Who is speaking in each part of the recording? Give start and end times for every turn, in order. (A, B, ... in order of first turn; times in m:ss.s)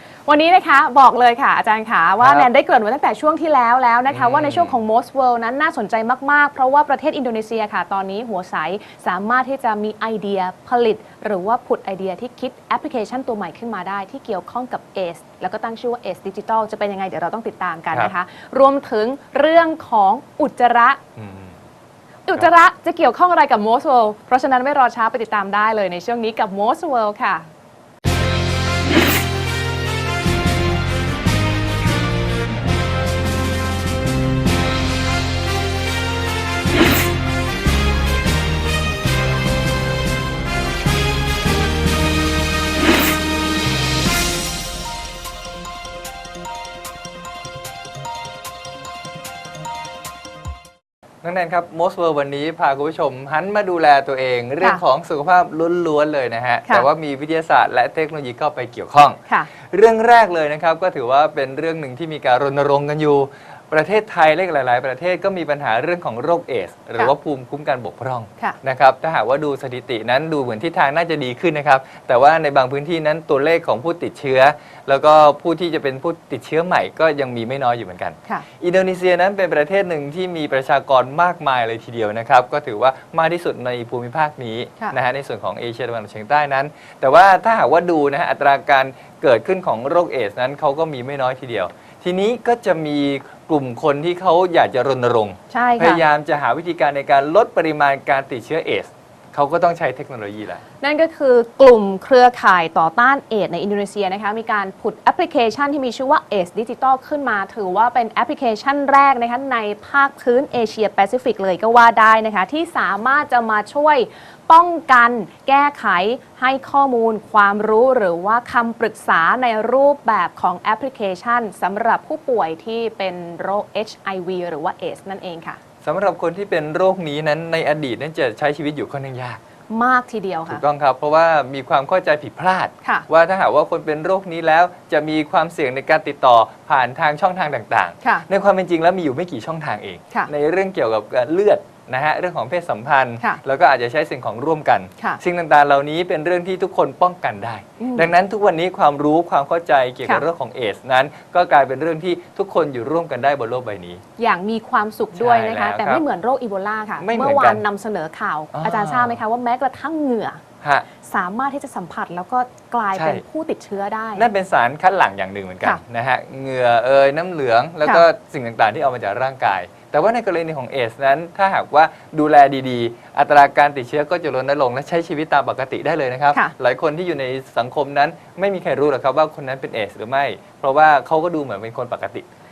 0:00.2-0:21.0 A
0:02.2-0:02.5 B
0:04.1-0:04.8 B
0:21.2-0:21.6 B
0:22.3-0:27.5 A
0:51.2-1:40.6 B
1:35.5-1:36.0 A
1:40.8-2:05.6 A
2:05.8-2:09.4 B
2:09.7-2:10.6 A
2:10.5-2:34.0 B
2:27.8-2:28.1 A
2:34.2-2:40.4 A
2:35.1-2:36.0 B
2:37.0-2:37.6 B
2:38.5-2:39.2 B
2:41.0-2:44.2 A
2:42.9-2:43.2 B
2:44.2-3:02.2 B